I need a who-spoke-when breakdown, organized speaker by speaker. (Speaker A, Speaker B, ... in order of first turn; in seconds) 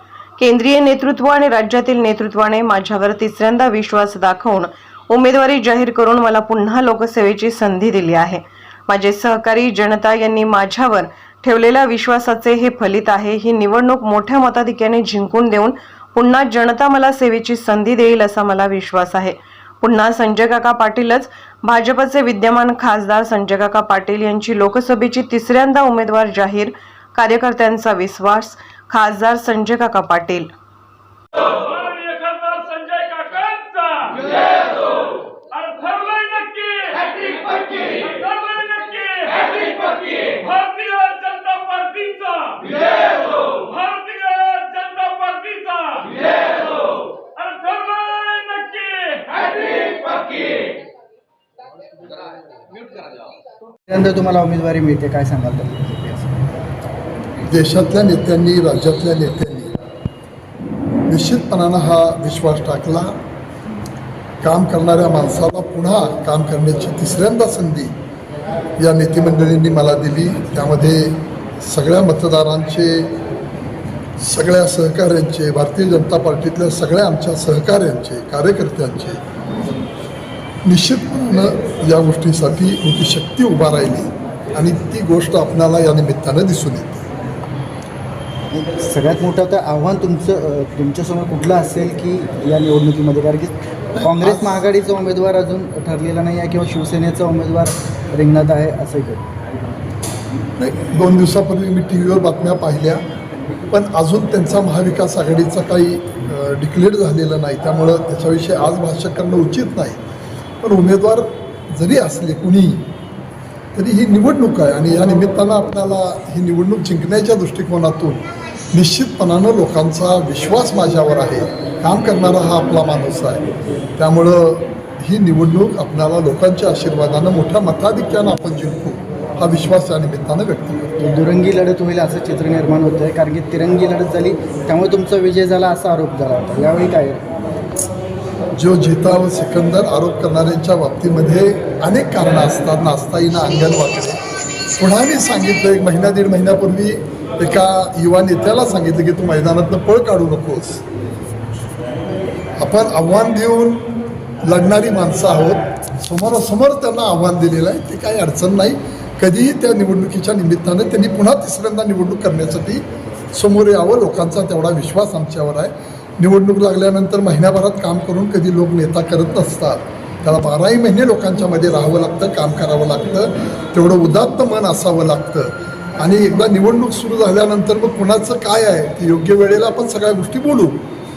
Speaker A: 0.4-30.5
Speaker B: 31.4-50.7
Speaker C: 53.9-56.4, 88.5-99.2, 131.0-137.2
Speaker D: 57.4-59.7, 61.1-63.2, 64.4-67.9, 68.8-73.2, 74.2-79.2, 80.6-87.1, 94.0-94.6, 100.6-103.0, 103.7-110.0, 110.6-112.9, 113.7-123.5, 124.0-130.9, 138.5-144.2, 144.8-150.8, 152.6-153.9, 154.4-162.8, 163.3-180.8